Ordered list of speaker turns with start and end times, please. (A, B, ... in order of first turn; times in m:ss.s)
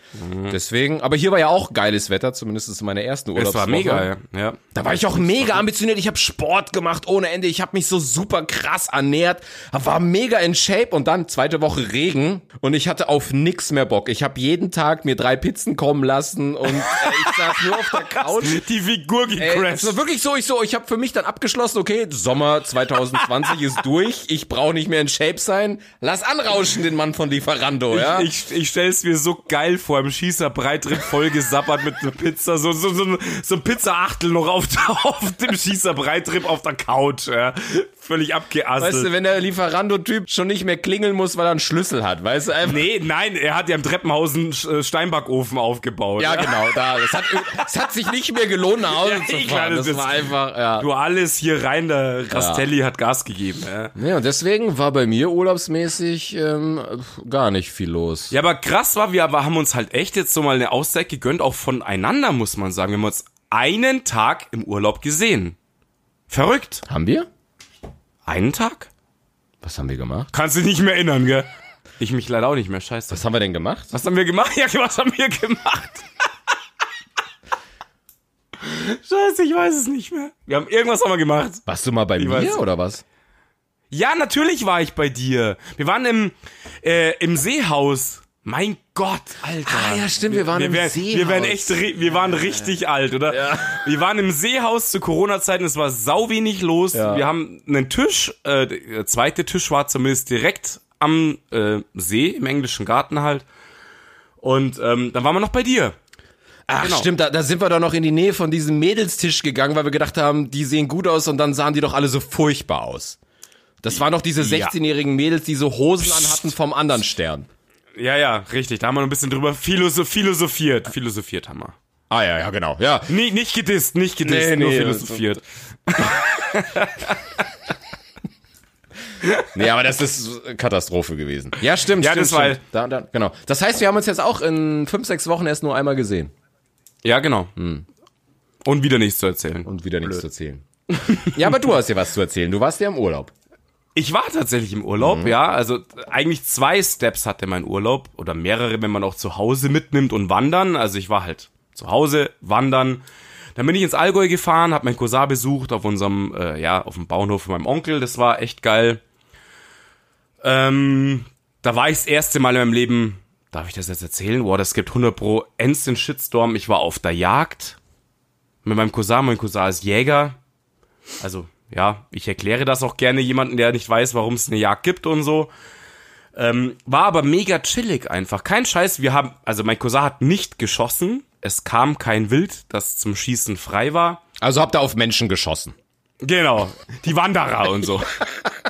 0:00.2-0:00.6 A
0:00.5-0:04.1 B
0:03.3-0:05.6 A
0:04.7-0:18.6 B
0:16.7-0:20.0 A
0:19.4-0:28.3 B
0:27.9-0:39.1 A
0:38.8-0:42.8 B
0:42.6-0:47.7 A
0:46.2-0:50.9 B
0:48.8-0:53.9 A
0:52.3-0:52.6 B
0:54.0-0:58.3 B
0:58.3-1:05.6 A
1:06.3-1:06.8 A
1:06.8-1:07.3 B
1:08.2-1:08.9 A
1:09.6-1:10.3 B
1:10.3-1:11.5 A
1:12.0-1:13.2 A
1:13.1-1:13.9 B
1:13.9-1:16.1 A
1:18.6-1:21.6 A
1:21.6-1:23.0 B
1:22.2-1:22.7 A
1:23.9-1:43.4 A
1:29.6-1:32.7 B
1:33.3-1:33.8 B
1:36.9-1:37.2 B
1:44.4-1:46.0 A
1:46.7-1:47.1 A
1:46.7-1:53.2 B
1:53.8-1:57.5 B
1:54.4-1:54.7 A
1:56.0-1:56.5 A
1:58.0-2:01.8 A
2:02.1-2:03.2 B
2:03.1-2:07.5 A
2:04.2-2:05.2 B
2:09.2-2:09.5 A
2:09.5-2:16.3 B
2:11.9-2:12.6 A
2:17.0-2:17.5 A
2:17.6-2:17.8 B
2:18.6-2:20.1 A
2:19.6-2:23.3 B
2:21.1-2:21.6 A
2:23.9-2:33.0 A
2:25.0-2:25.3 B
2:33.6-2:39.0 A
2:40.4-2:47.8 A
2:48.6-2:50.4 A
2:51.2-2:55.5 A
2:56.3-3:04.2 A
3:04.4-3:05.7 B
3:06.2-3:08.2 A